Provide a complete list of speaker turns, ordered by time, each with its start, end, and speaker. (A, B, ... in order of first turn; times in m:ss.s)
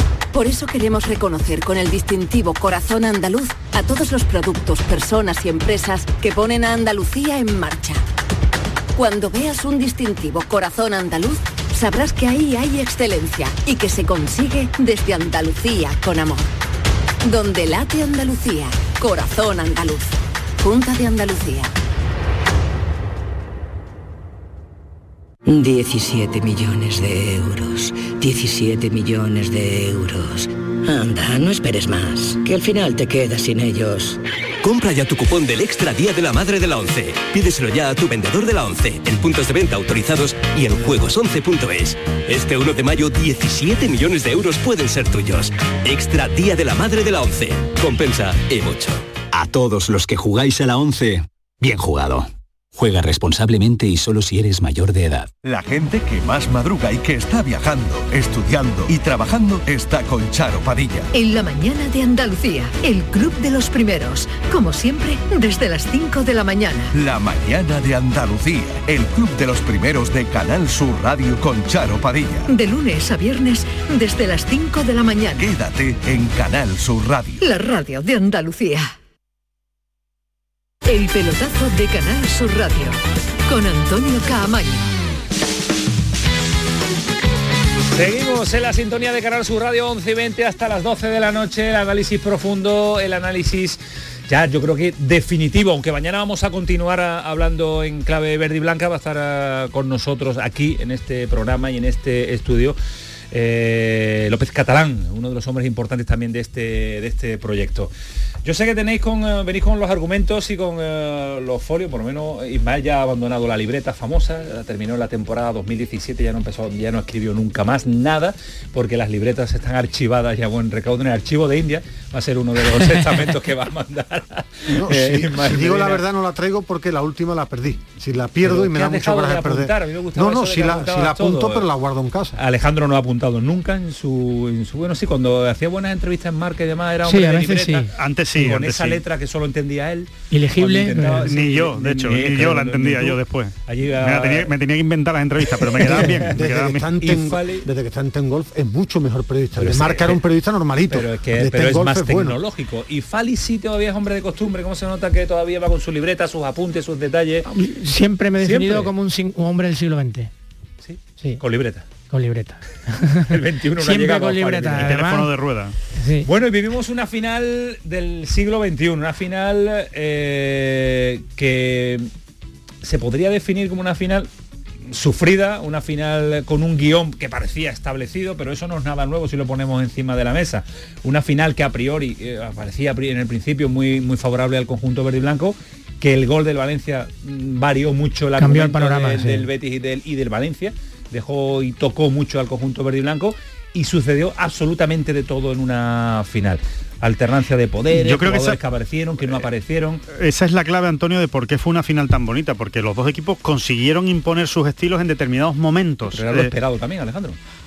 0:00.3-0:08.0 A
0:08.9-0:16.5 A
0:17.2-0:21.7 A
0:25.4-0:34.2 B
0:34.6-0:49.0 C
0:49.3-0:55.3 D
0:55.4-1:01.1 E
1:01.1-1:06.9 F
1:06.9-1:12.5 E
1:12.5-1:15.5 F
1:15.4-1:17.4 E
1:17.4-1:18.9 F
1:20.8-1:24.9 F
1:27.9-1:42.8 G
1:43.3-1:47.9 G
1:48.4-2:06.0 G
2:04.8-2:12.4 H
2:08.4-2:11.7 G
2:12.4-2:24.5 G
2:17.0-2:17.9 I
2:18.0-2:19.0 J
2:20.3-2:21.3 I
2:21.2-2:26.8 J
2:25.6-2:26.3 G
2:25.9-2:32.4 H
2:27.0-2:27.7 G
2:29.6-2:30.2 G
2:30.9-2:37.5 G
2:37.5-2:40.3 I
2:38.4-2:38.9 G
2:40.8-2:41.8 G
2:42.1-2:45.3 I
2:43.2-2:45.0 G
2:44.8-2:45.7 J
2:45.9-2:46.3 I
2:46.2-2:52.1 G
2:52.8-2:54.3 G
2:54.9-3:20.0 G
3:08.4-3:09.4 I
3:17.9-3:18.6 J
3:20.1-3:26.5 J
3:26.1-3:27.4 G